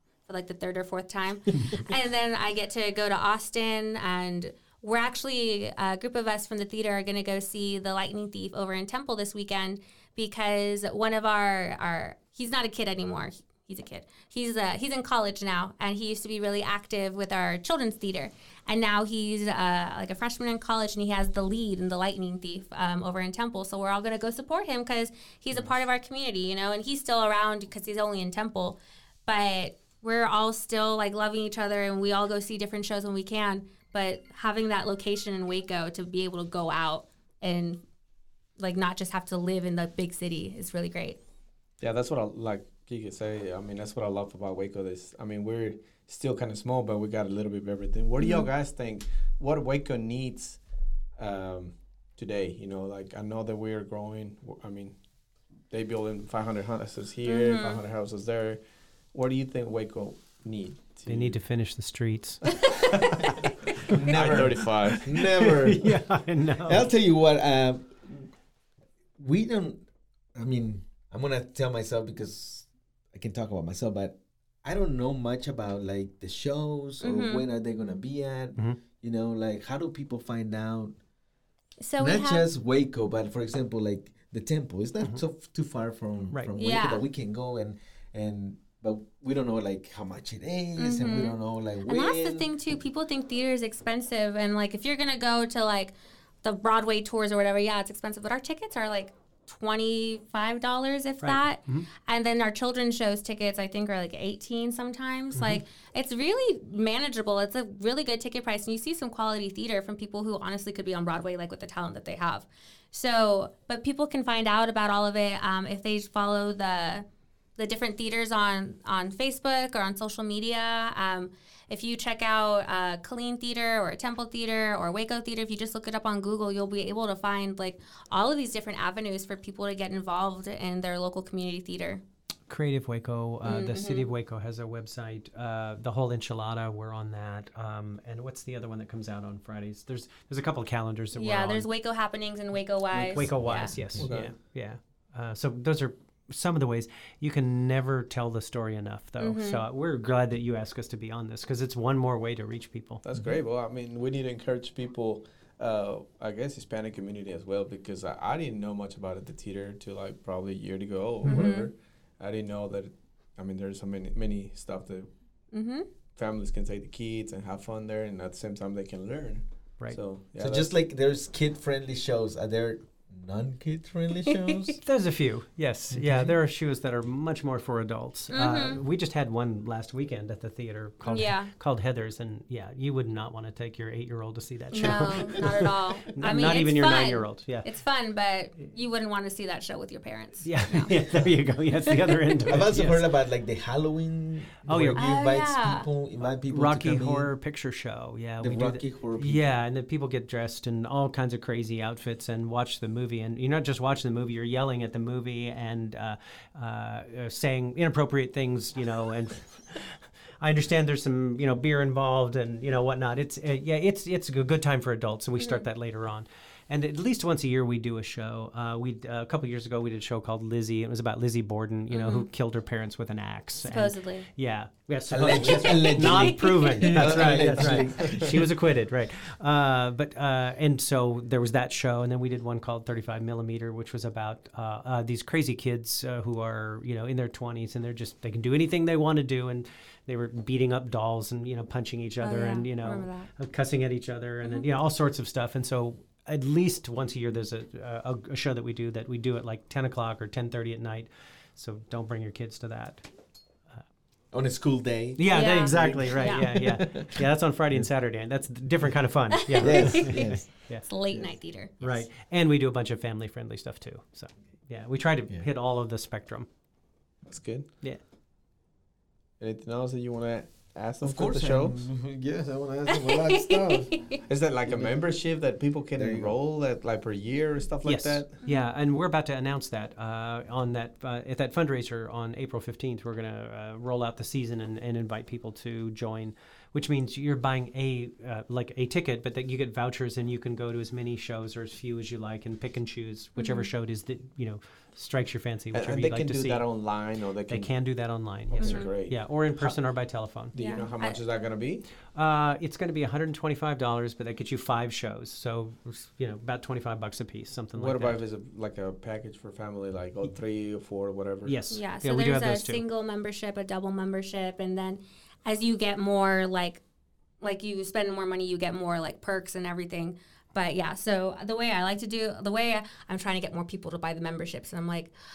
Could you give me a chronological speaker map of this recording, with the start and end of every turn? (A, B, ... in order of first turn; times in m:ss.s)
0:00.3-0:37.8 A
0:38.6-0:41.2 A
0:41.8-0:50.6 B
0:48.2-0:48.5 A
0:51.2-0:55.0 B
0:55.7-1:01.4 B
0:57.2-0:57.8 A
1:01.1-1:02.4 C
1:03.9-1:05.1 B
1:03.9-1:06.0 D
1:04.1-1:06.8 C
1:06.6-1:08.3 D
1:09.2-1:21.0 D
1:17.0-1:17.4 A
1:21.8-1:22.4 A
1:22.0-1:32.5 D
1:26.6-1:27.0 A
1:30.8-1:57.0 A
1:41.2-1:41.9 C
1:45.3-1:45.6 C
1:57.6-2:12.0 A
2:12.5-2:21.7 C
2:13.4-2:14.1 A
2:21.1-2:23.7 A
2:23.0-2:33.0 C
2:23.5-2:24.1 D
2:24.0-2:24.3 B
2:29.2-2:29.6 A
2:33.0-2:45.1 B
2:41.2-2:41.7 A
2:45.5-2:45.9 A
2:46.2-2:50.7 B
2:50.4-2:54.8 D
2:54.2-2:54.8 A
2:54.8-3:05.5 C
2:55.9-2:56.3 D
2:58.3-2:58.8 A
3:01.0-3:01.5 A
3:04.7-3:10.9 A
3:04.9-3:05.5 D
3:06.1-3:07.6 C
3:10.4-3:13.0 C
3:12.5-3:17.3 D
3:14.6-3:15.0 C
3:14.9-3:15.9 A
3:16.5-4:13.1 C
3:18.4-3:19.4 D
3:41.9-3:42.3 A
3:43.6-3:44.3 A
3:45.1-3:48.4 D
3:45.2-3:47.3 A
3:47.5-3:48.2 B
4:02.2-4:03.3 A
4:14.3-4:17.9 D
4:15.2-4:20.8 C
4:15.3-4:16.5 A
4:19.5-4:20.2 A
4:19.6-4:20.5 D
4:20.8-4:22.0 A
4:21.8-4:26.5 C
4:27.2-4:27.7 B
4:29.4-4:31.8 B
4:31.0-4:35.0 D
4:32.9-4:34.2 A
4:34.3-4:38.3 B
4:36.0-4:36.4 D
4:37.8-4:56.6 C
4:53.4-4:53.7 A
4:55.7-4:57.7 B
4:57.5-5:00.5 C
4:58.5-4:59.8 B
4:58.6-4:58.9 A
5:00.5-5:01.8 B
5:00.5-5:01.2 A
5:02.1-5:08.2 C
5:07.7-5:11.6 B
5:11.4-5:12.8 C
5:11.7-5:16.8 A
5:17.4-5:25.1 A